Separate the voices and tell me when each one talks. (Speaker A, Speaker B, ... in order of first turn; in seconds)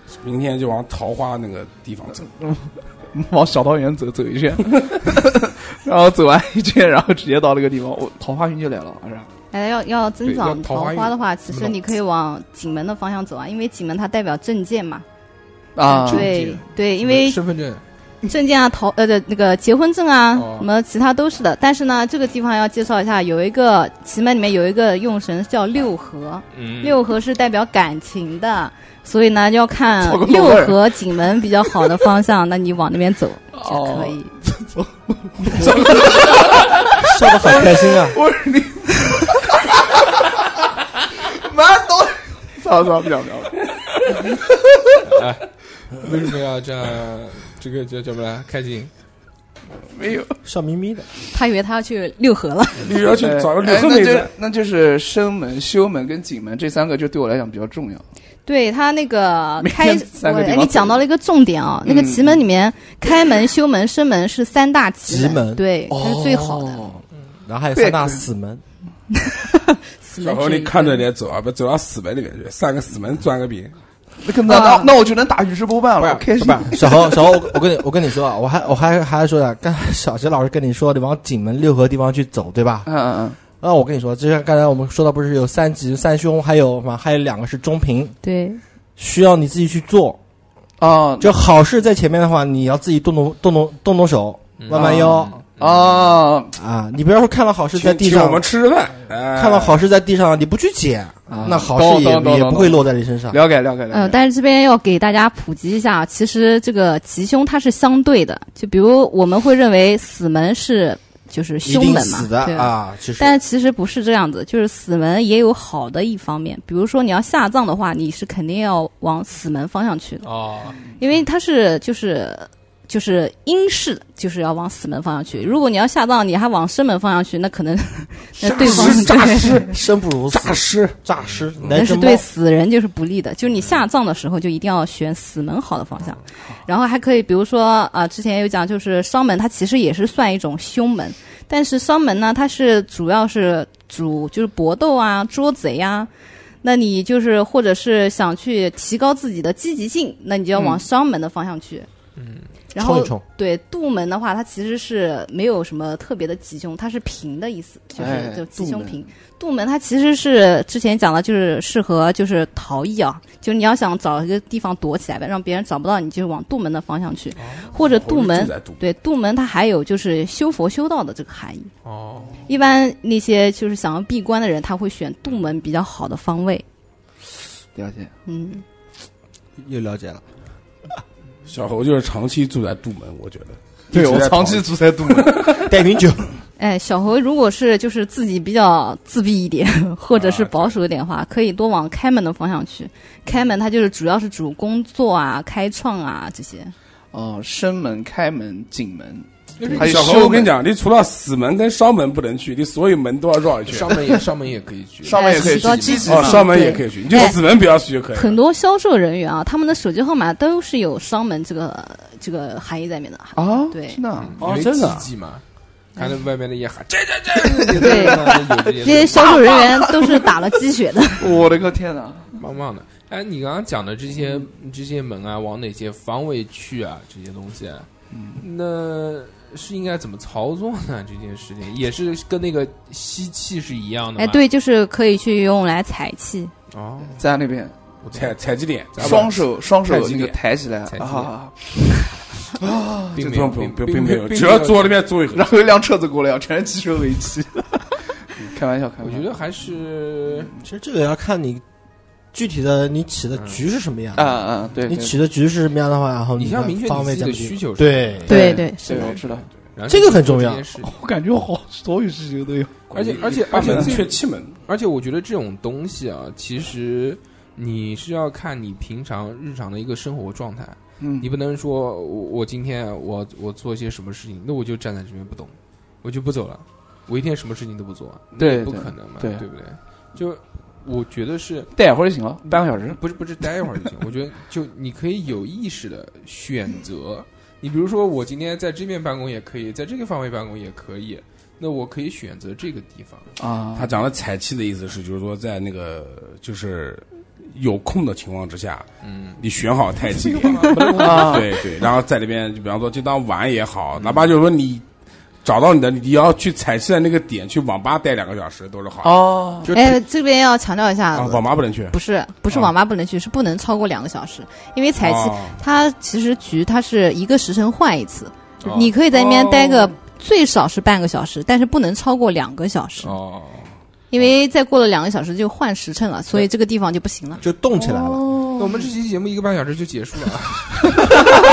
Speaker A: 0.2-2.3, 52.8-54.3, 70.2-73.8, 97.8-99.8, 128.4-129.8, 130.3-131.0, 167.8-168.8, 181.5-185.6, 190.2-190.6, 199.7-204.0, 206.1-208.4, 214.4-215.1, 238.1-239.3, 239.8-240.4, 243.2-245.5, 262.9-264.6, 293.8-298.9, 299.4-304.9, 305.4-309.2, 311.1-312.0, 315.0-315.6
Speaker B: 2.5-9.3, 15.8-16.3, 30.0-30.9, 33.5-40.2, 41.3-43.6, 44.1-44.5, 49.9-50.4, 53.2-58.0, 59.6-61.0, 61.9-62.4, 65.9-67.0, 67.8-68.2, 74.2-77.3, 82.9-83.4, 90.8-91.3, 94.7-96.5, 101.3-104.2, 150.6-150.8, 158.0-159.0, 177.7-178.1, 183.9-185.7, 197.1-200.5, 205.0-206.6, 213.4-214.4, 217.7-218.4, 219.1-220.2, 221.2-222.3, 228.1-228.4, 237.2-237.8, 239.0-241.8, 242.6-243.2, 245.3-249.3, 254.2-255.2, 258.3-259.5, 260.8-262.8, 263.5-263.9, 271.0-271.3, 278.4-279.5, 281.8-283.0, 293.4-293.9, 300.8-301.6, 309.0-309.7, 319.1-319.9, 327.8-328.9
Speaker C: 9.5-15.1, 15.9-17.4, 18.3-34.3, 51.3-52.9, 58.5-66.8, 69.2-71.0, 74.5-74.9, 88.2-88.6, 103.9-120.3, 121.0-129.7, 131.7-146.1, 146.6-151.9, 152.7-171.7, 172.5-176.7, 178.3-178.6, 186.6-196.7, 205.1-207.4, 208.1-214.0, 217.7-221.3, 234.2-236.5, 258.3-259.2, 309.7-323.1, 324.1-327.4
Speaker D: 10.2-11.8, 15.9-17.8, 20.3-20.7, 26.5-27.0, 45.0-48.9, 94.6-96.0, 120.2-120.8, 152.2-152.5, 167.4-167.7, 171.8-172.4, 199.6-200.4, 203.7-206.4, 214.2-215.4, 216.0-219.4, 221.3-221.6, 222.4-227.9, 228.4-234.4, 236.7-237.2, 238.0-238.4, 238.9-239.5, 240.9-241.3, 243.1-245.0, 249.0-250.5, 253.3-253.6, 256.4-261.0, 262.9-281.7, 282.4-293.3, 299.0-299.4, 300.2-301.6, 304.0-304.3, 318.6-318.9, 323.0-323.7, 328.6-331.2
Speaker E: 37.0-38.2, 50.4-51.1, 65.0-65.6, 67.5-68.6, 76.4-82.9, 83.6-88.2, 89.0-90.2, 91.2-95.4, 96.5-98.4, 99.3-103.4, 111.7-113.4, 128.6-132.2, 152.8-153.2, 179.6-180.2, 185.6-186.3, 250.6-251.6, 252.3-258.4, 259.9-260.7, 309.7-310.0, 327.4-328.2